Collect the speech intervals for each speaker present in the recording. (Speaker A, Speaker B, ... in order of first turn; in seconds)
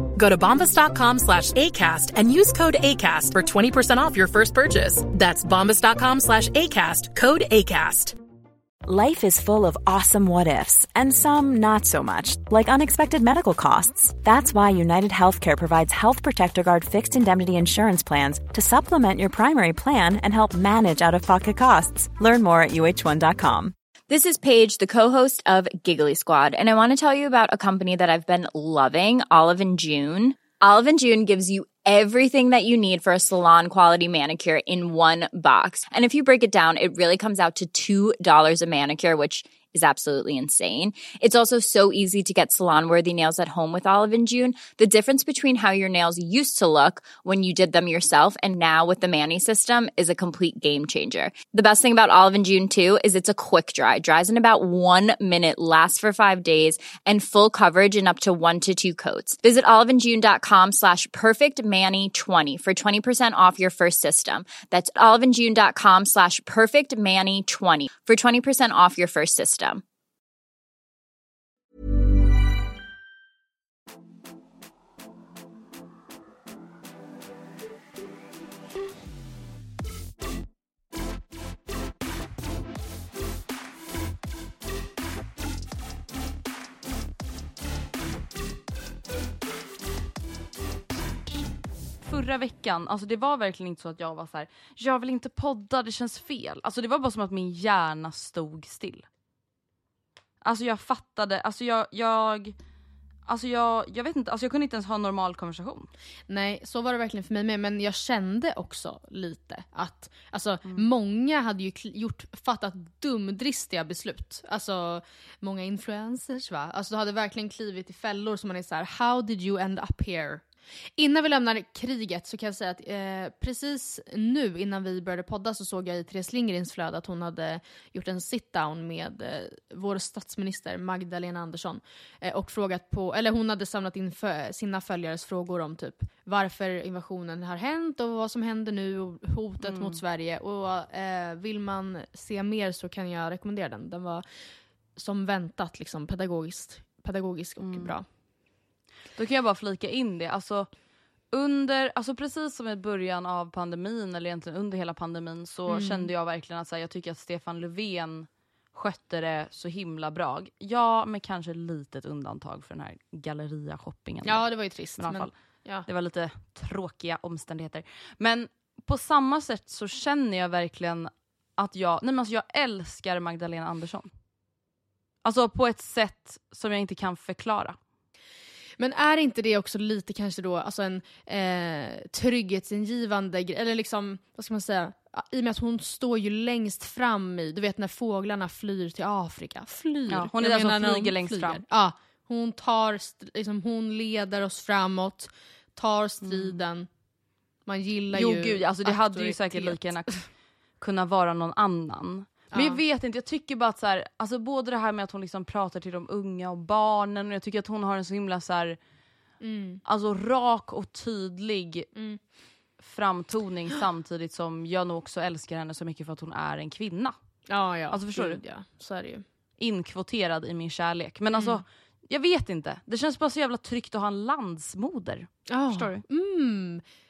Speaker A: 0.1-8.1
Speaker B: 8.8-23.7
Speaker C: 24.1-69.8
Speaker D: 92.0-99.0, 100.4-102.5, 103.2-105.9, 139.6-140.0, 147.6-147.9, 149.1-150.7, 151.3-164.4, 165.0-165.3, 165.8-174.1, 175.2-177.8, 190.1-191.6, 196.2-196.6, 198.1-208.8, 209.8-211.9, 212.8-217.1, 217.9-218.4, 219.6-226.0
Speaker E: 106.3-120.4, 121.0-144.2, 144.9-148.0, 155.7-156.1, 164.2-165.8, 178.8-196.9, 197.7-199.9, 202.5-202.8, 209.4-209.8, 211.9-212.2, 217.5-219.2, 221.3-221.6, 225.5-226.8